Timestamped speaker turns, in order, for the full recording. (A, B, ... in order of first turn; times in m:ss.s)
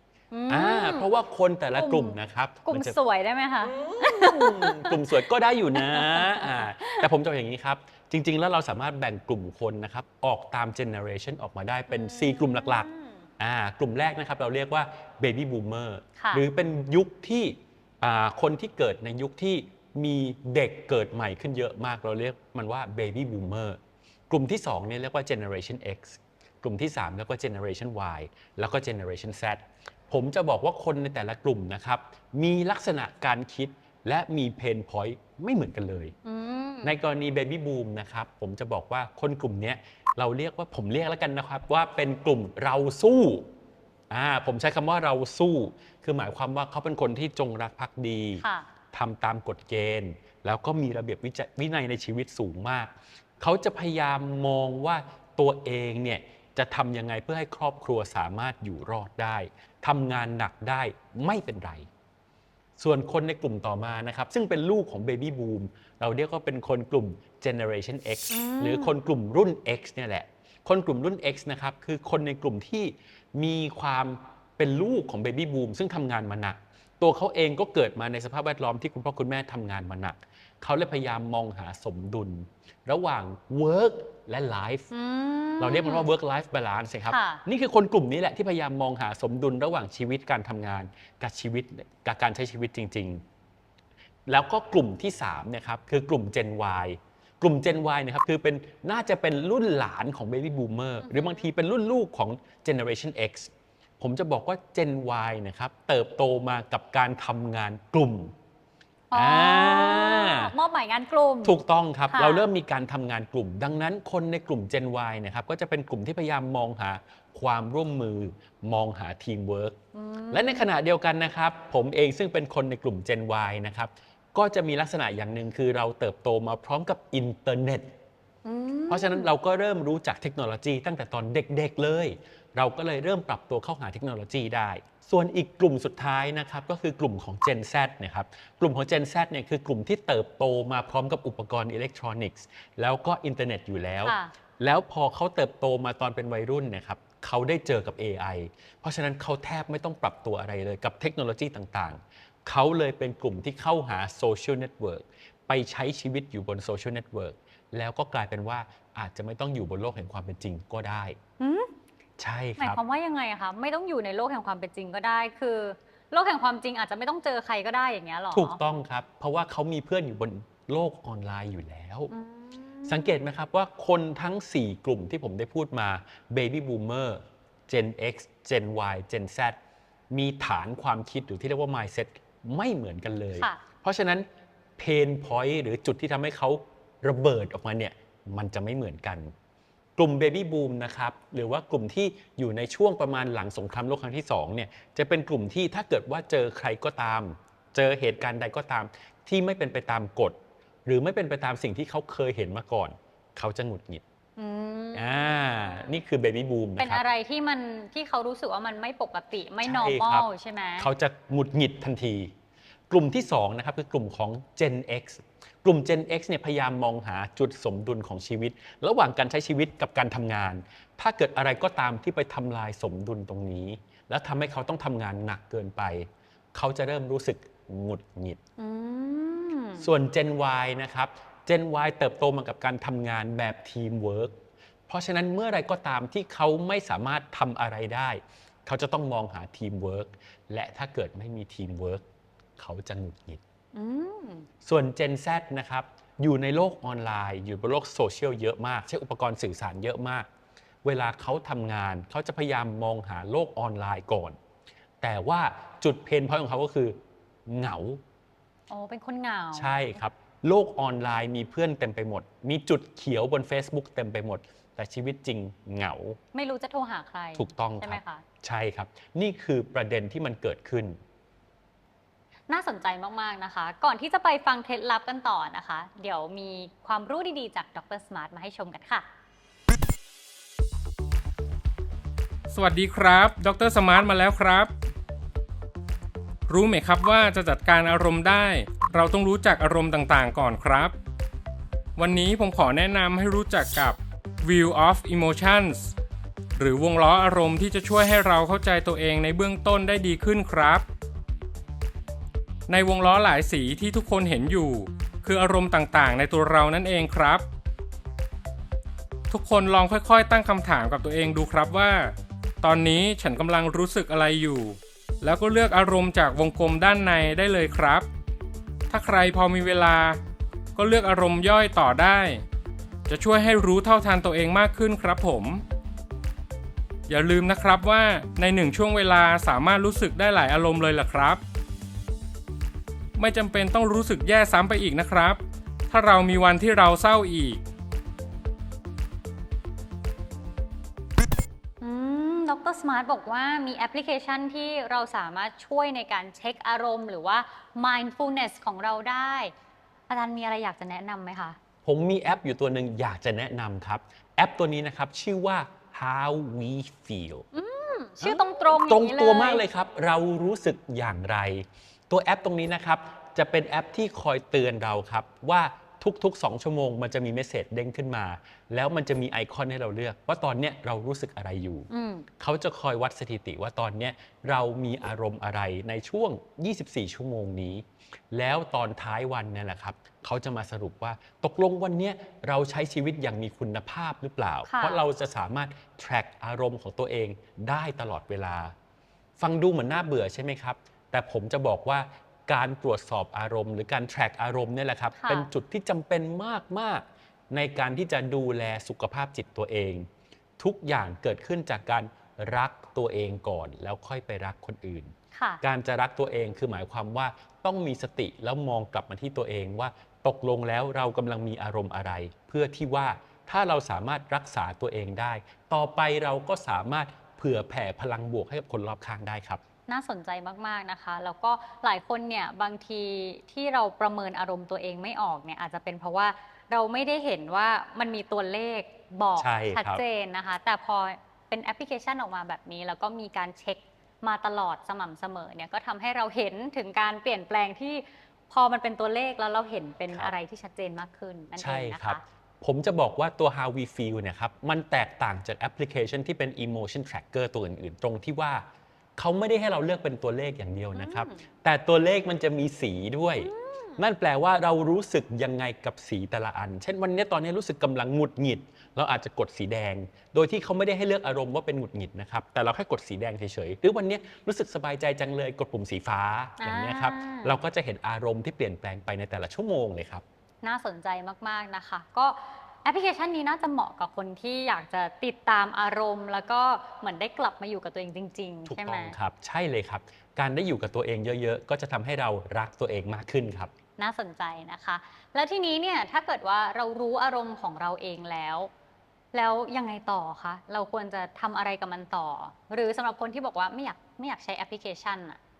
0:00.3-0:01.1 A
0:00.5-0:03.0 B
0:01.8-0:05.2 A
0:03.7-0:12.9 B
0:05.7-0:07.1 A
0:11.9-0:13.3 A
0:13.4-0:36.1 B
0:16.2-0:16.4 A
0:36.2-0:37.0 A
0:36.8-0:43.5 B
0:44.1-1:01.9 B
0:48.4-0:48.7 A
1:02.8-1:24.9 B
1:08.3-1:08.9 A
1:24.9-1:26.1 A
1:25.6-1:33.2 B
1:27.1-1:27.4 A
1:34.3-1:48.4 B
1:41.0-1:41.5 A
1:49.1-1:51.6 A
1:49.1-1:50.5 B
1:51.4-1:59.8 B
1:52.1-1:52.5 A
1:59.9-2:00.7 A
2:00.3-2:07.9 B
2:08.4-2:09.3 A
2:08.9-2:41.2 B
2:24.0-2:24.3 A
2:41.4-2:41.7 A
2:42.2-2:42.8 B
2:42.6-2:48.6 A
2:48.3-2:52.1 B
2:52.1-2:53.2 A
2:52.9-2:59.6 B
3:00.1-3:09.3 B
3:10.0-3:24.0 B
3:24.4-3:25.9 A
3:24.9-3:27.0 B
3:26.8-3:30.9 A
3:29.6-3:30.3 B
3:30.8-3:32.3 B
3:32.9-3:48.4 B
3:48.6-3:49.9 A
3:49.8-4:02.0 B
4:02.6-4:03.4 B
4:03.7-4:04.5 A
4:04.6-4:10.3 B
4:10.8-4:14.4 B
4:15.0-4:18.0 B
4:18.7-4:19.9 A
4:19.6-4:26.2 B
4:26.3-4:28.2 A
4:27.4-4:31.0 B
4:32.5-4:39.1 A
4:42.5-4:44.7 C
4:46.5-4:51.0 C
4:52.0-4:55.9 C
4:56.6-5:00.8 C
5:02.7-5:07.4 C
5:09.3-5:18.1 C
5:18.9-5:20.2 C
5:20.8-5:22.4 C
5:23.1-5:25.6 C
5:27.1-5:31.4 C
5:33.2-5:37.6 C
5:41.8-5:49.5 A
5:50.1-5:51.6 A
5:51.8-5:57.4 B
5:57.5-5:59.6 A
5:58.2-6:11.9 B
6:11.9-6:12.3 A
6:12.4-6:28.8 B
6:24.6-6:25.0 A
6:29.4-6:40.1 B
6:35.2-6:35.5 A
6:40.6-6:59.6 B
6:45.3-6:45.6 A
6:59.9-7:22.2 A
7:09.4-7:10.0 B
7:21.6-7:50.2 B
7:30.9-7:31.5 A
7:33.4-7:34.1 A
7:46.6-7:47.6 A
7:50.6-7:59.2 A
7:58.7-8:03.7 B
8:04.0-8:08.7 A
8:09.3-8:15.4 A